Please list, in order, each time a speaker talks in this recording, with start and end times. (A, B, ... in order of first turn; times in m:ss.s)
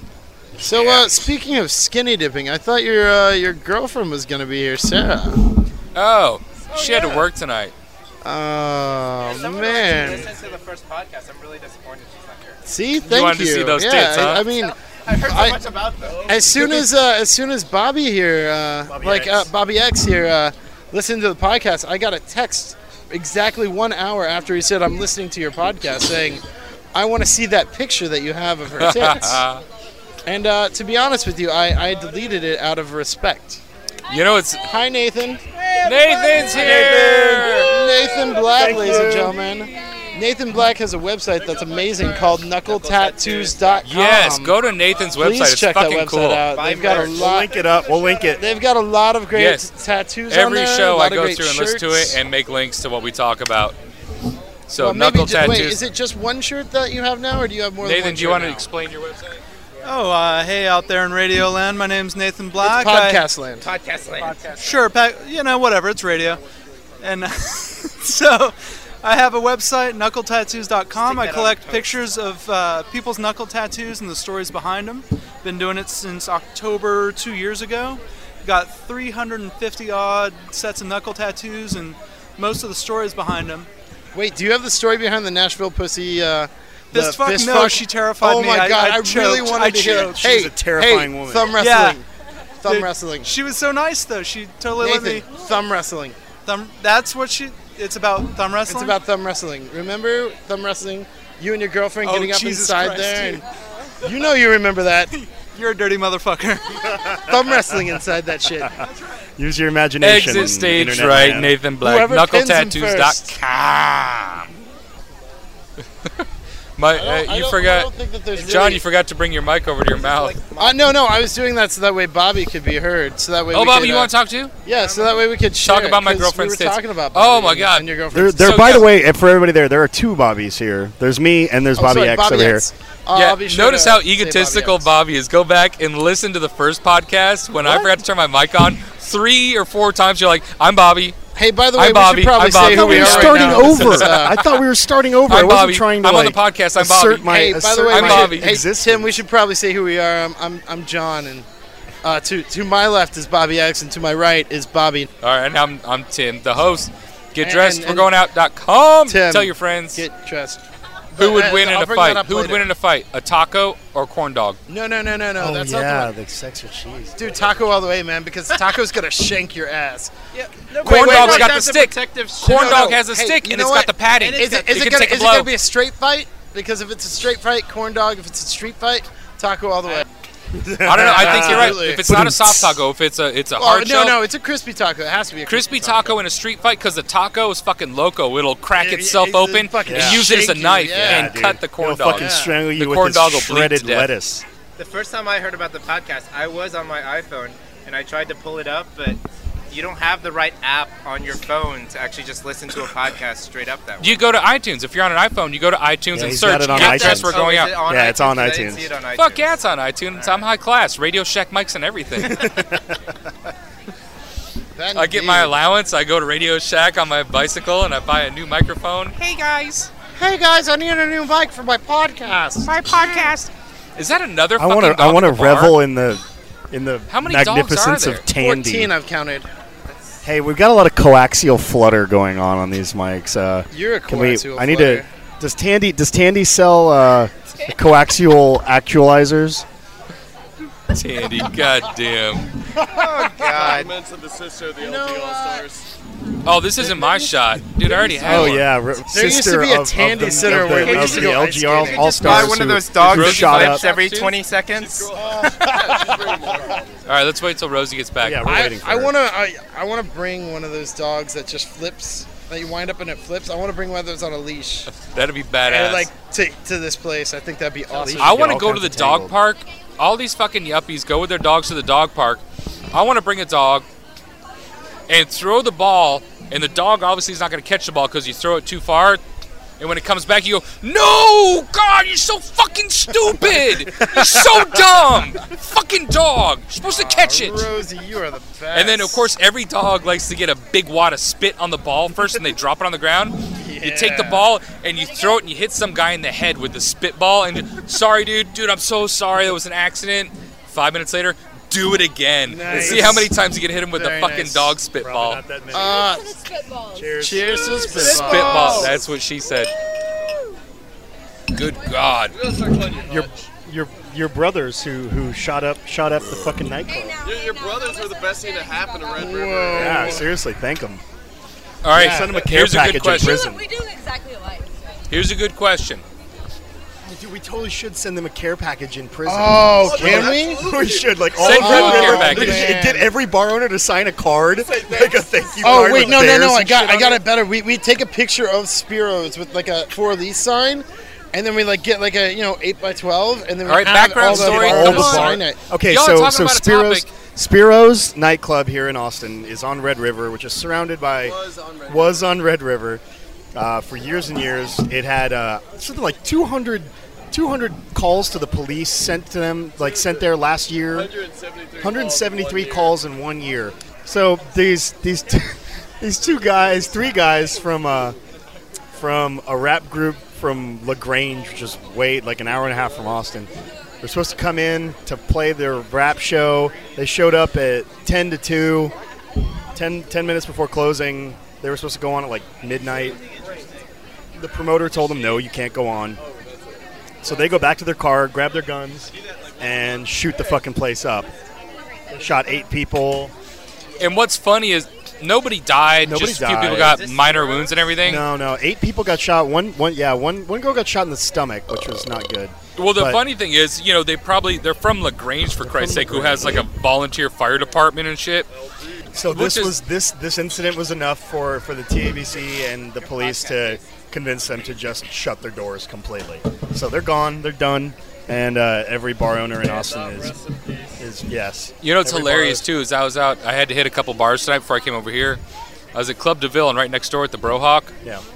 0:00.6-0:05.5 A
0:00.7-0:01.1 B
0:05.9-0:07.7 B
0:06.7-0:07.2 A
0:08.2-0:10.3 A
0:09.2-0:12.6 C
0:12.6-0:15.6 A
0:13.0-0:14.4 B
0:14.6-0:16.3 C
0:16.2-0:26.4 A
0:18.9-0:19.5 D
0:26.9-0:29.4 A
0:28.8-0:29.6 B
0:30.2-0:33.6 A
0:34.1-0:34.6 B
0:34.6-0:35.4 A
0:35.8-0:37.7 B
0:36.4-0:39.5 D
0:37.5-0:44.6 A
0:42.7-0:43.8 C
0:43.8-0:46.4 B
0:45.2-0:47.5 A
0:46.5-0:47.3 C
0:46.7-0:48.5 D
0:48.4-0:52.2 A
0:49.3-0:49.7 B
0:50.3-0:53.8 B
0:54.7-0:55.8 B
0:54.8-0:58.6 A
0:57.8-0:59.4 B
0:59.8-1:03.2 E
1:02.6-1:03.7 A
1:03.6-1:04.6 C
1:04.5-1:06.4 E
1:07.0-1:23.7 E
1:10.9-1:12.0 C
1:24.1-1:32.0 A
1:26.9-1:30.2 E
1:29.8-1:31.6 D
1:31.6-1:32.0 E
1:32.6-1:33.3 A
1:32.6-1:35.3 E
1:34.8-1:36.2 A
1:36.4-1:39.0 E
1:38.7-1:43.4 A
1:42.0-1:43.4 E
1:44.0-1:45.1 A
1:45.3-1:46.9 E
1:47.2-1:48.7 A
1:49.4-1:51.5 D
1:50.0-1:54.5 B
1:51.8-1:53.3 A
1:56.8-2:00.4 B
1:56.9-1:58.8 A
1:58.4-1:58.6 C
1:59.9-2:00.9 C
2:00.6-2:04.1 A
2:03.5-2:04.5 B
2:04.6-2:08.6 A
2:04.7-2:05.2 C
2:05.6-2:08.9 B
2:08.1-2:12.6 D
2:11.8-2:14.9 A
2:13.1-2:21.2 B
2:21.3-2:24.4 A
2:21.8-2:24.5 B
2:22.6-2:29.2 D
2:25.3-2:27.3 B
2:27.2-2:31.5 A
2:27.9-2:28.6 B
2:32.0-2:35.1 A
2:35.2-2:40.0 B
2:37.4-2:38.1 A
2:39.1-2:42.6 A
2:41.2-2:44.6 B
2:44.7-2:46.1 A
2:45.4-2:47.5 D
2:47.2-2:50.2 A
2:50.3-2:53.0 C
2:50.8-2:51.6 A
2:50.8-2:55.5 B
2:52.4-3:00.1 A
2:54.1-2:55.1 C
3:00.6-3:02.8 D
3:00.8-3:02.0 A
3:00.8-3:04.2 B
3:03.6-3:06.2 A
3:05.5-3:14.1 B
3:08.8-3:11.4 A
3:09.8-3:14.4 D
3:12.1-3:12.5 A
3:14.8-3:24.2 C
3:24.0-3:27.7 B
3:26.1-3:28.9 D
3:26.7-3:29.6 C
3:29.2-3:32.6 B
3:32.2-3:33.0 D
3:34.8-3:35.5 A
3:34.9-3:39.9 B
3:40.1-3:42.7 A
3:42.6-3:45.8 B
3:44.6-3:48.9 D
3:47.1-3:48.2 B
3:48.3-3:49.5 A
3:49.9-3:50.2 C
3:50.2-3:59.6 D
3:53.7-3:55.1 A
4:00.9-4:02.5 B
4:02.9-4:03.9 C
4:03.4-4:05.9 F
4:04.8-4:05.7 A
4:06.4-4:08.7 B
4:07.9-4:08.6 A
4:08.2-4:13.8 D
4:09.1-4:12.5 A
4:10.8-4:15.1 C
4:10.8-4:11.3 B
4:12.2-4:14.3 B
4:14.7-4:17.0 F
4:15.1-4:16.6 A
4:17.0-4:18.5 B
4:18.2-4:19.1 D
4:18.4-4:24.9 A
4:24.9-4:26.1 B
4:25.6-4:28.6 A
4:27.9-4:29.4 D
4:28.2-4:33.8 B
4:35.1-4:39.2 B
4:39.8-4:47.7 B
4:44.0-4:44.8 D
4:46.8-4:49.3 A
4:48.7-5:05.4 B
4:53.6-4:54.5 A
4:55.0-4:55.4 G
5:02.5-5:03.3 A
5:02.7-5:03.2 D
5:03.9-5:04.8 A
5:05.0-5:06.1 D
5:05.7-5:06.4 A
5:05.9-5:08.2 G
5:06.9-5:08.9 D
5:07.2-5:09.0 A
5:07.9-5:09.7 B
5:11.5-5:12.4 B
5:12.3-5:13.3 F
5:13.0-5:17.2 D
5:16.2-5:16.6 B
5:16.8-5:19.2 G
5:17.2-5:20.2 F
5:19.1-5:20.3 A
5:19.7-5:21.0 D
5:21.8-5:23.5 B
5:21.9-5:23.6 D
5:22.0-5:22.3 A
5:23.1-5:24.7 G
5:25.1-5:26.0 B
5:27.0-5:37.2 D
5:29.2-5:30.7 A
5:29.8-5:31.3 F
5:31.4-5:32.6 B
5:31.4-5:33.1 A
5:34.6-5:36.1 F
5:35.6-5:45.6 A
5:43.6-5:47.1 B
5:44.2-5:53.0 D
5:51.2-5:52.2 F
5:53.5-6:01.1 D
5:59.8-6:00.2 F
6:00.9-6:03.0 F
6:01.8-6:08.2 D
6:08.9-6:13.5 D
6:14.0-6:18.9 D
6:19.7-6:23.2 D
6:23.2-6:23.7 F
6:24.3-6:26.2 D
6:26.2-6:26.8 F
6:27.2-6:31.3 D
6:32.1-6:33.3 D
6:34.0-6:38.2 B
6:36.0-6:37.0 D
6:36.7-6:37.9 C
6:38.0-6:43.2 D
6:42.8-6:48.5 B
6:45.6-6:46.7 D
6:48.6-6:49.0 F
6:49.1-7:00.4 D
6:49.3-6:49.8 B
6:53.0-6:53.8 C
6:59.6-7:01.0 F
7:01.0-7:02.6 D
7:01.8-7:05.4 B
7:05.9-7:07.9 B